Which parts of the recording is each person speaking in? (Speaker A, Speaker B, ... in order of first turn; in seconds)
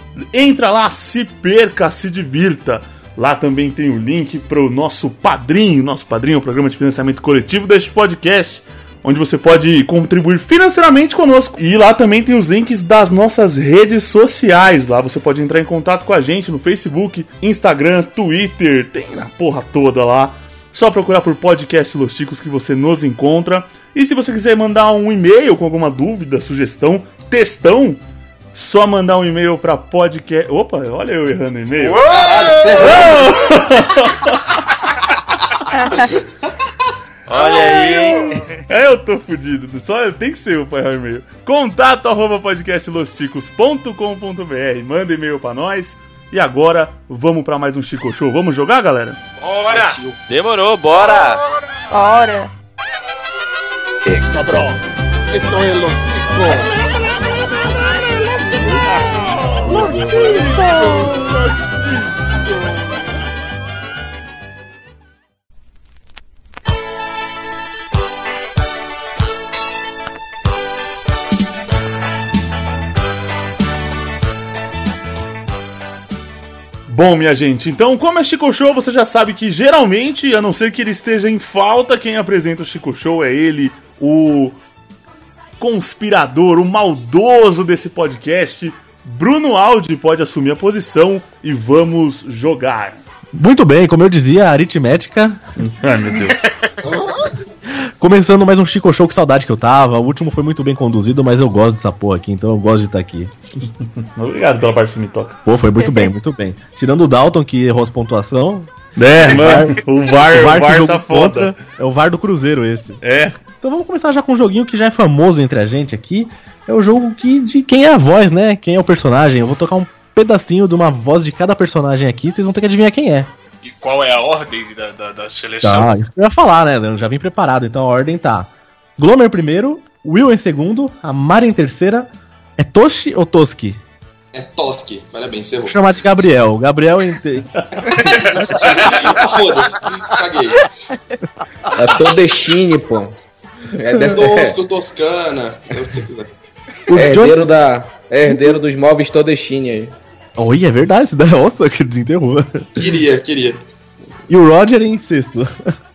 Speaker A: 0.2-28.0, 28.5-32.1, 32.8-34.5, 38.7-49.2, 76.9-84.6, 85.6-93.0, 95.6-96.5, 104.0-105.4, 109.0-111.6, 113.0-113.4
Speaker B: 31.8-33.2, 37.3-38.4, 49.4-50.0, 50.9-51.7, 109.2-109.7, 123.6-125.9, 137.9-139.4
Speaker C: 32.1-33.3, 49.7-50.1, 134.3-135.8, 138.2-140.6, 144.0-146.3, 152.8-153.6
Speaker D: 37.3-38.5, 50.3-51.4
Speaker E: 51.9-52.5, 59.7-61.3, 105.8-106.1
Speaker F: 93.3-95.4, 98.0-103.3, 105.5-113.0, 113.6-123.3, 125.6-133.8, 135.7-138.6, 146.9-147.4, 148.3-148.6, 150.4-152.8, 154.3-155.5
Speaker G: 141.7-143.2, 143.8-144.6, 146.9-149.9